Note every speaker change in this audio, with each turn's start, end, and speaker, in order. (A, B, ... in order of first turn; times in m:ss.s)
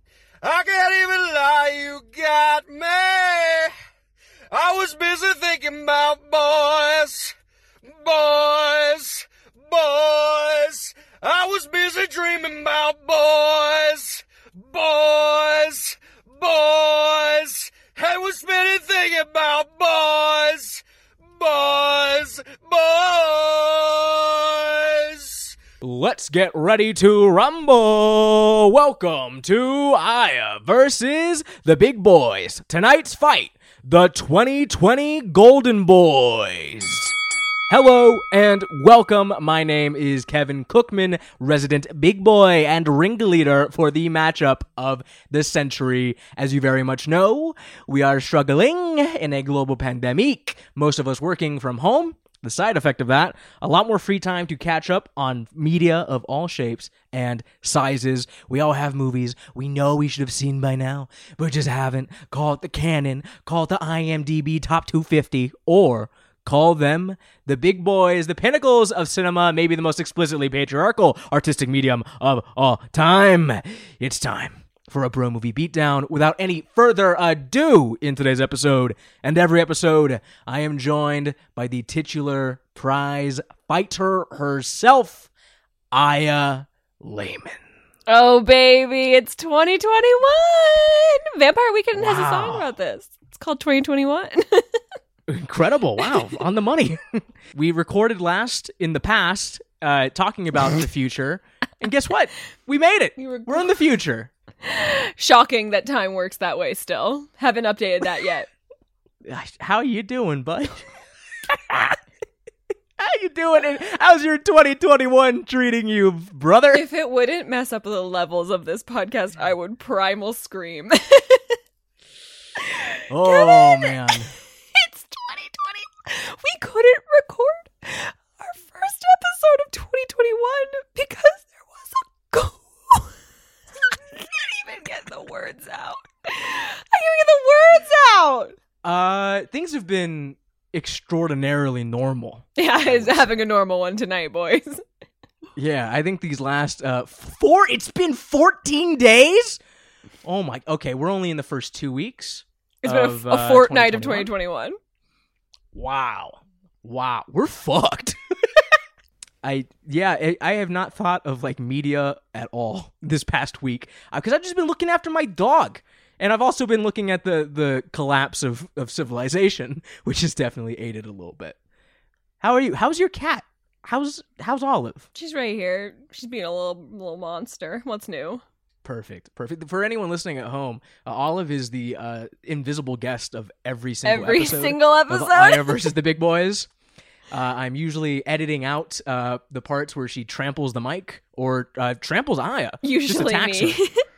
0:00.4-0:03.7 A
0:04.5-0:25.6 A
0:25.8-0:37.1 B
0:37.7-1:25.3 B
1:25.9-1:27.6 B
1:28.1-1:34.8 C
1:32.0-1:32.7 B
1:35.3-1:44.3 B
1:43.2-1:43.7 C
1:44.6-1:48.5 C
1:49.2-1:50.8 B
1:51.5-1:52.0 B
1:53.0-1:56.8 B
1:56.7-2:01.6 C
2:02.6-2:04.2 C
2:03.1-2:04.3 B
2:04.7-2:13.1 C
2:13.8-2:18.5 C
2:18.8-2:23.4 B
2:22.6-2:24.8 C
2:25.6-2:29.6 B
2:30.2-2:34.3 B
2:32.8-2:34.8 C
2:35.7-2:38.7 B
2:39.4-2:51.6 B
2:52.4-2:55.1 B
2:55.1-2:58.4 C
2:58.8-3:06.7 B
3:04.0-3:05.9 C
3:07.3-3:13.8 B
3:12.8-3:14.0 C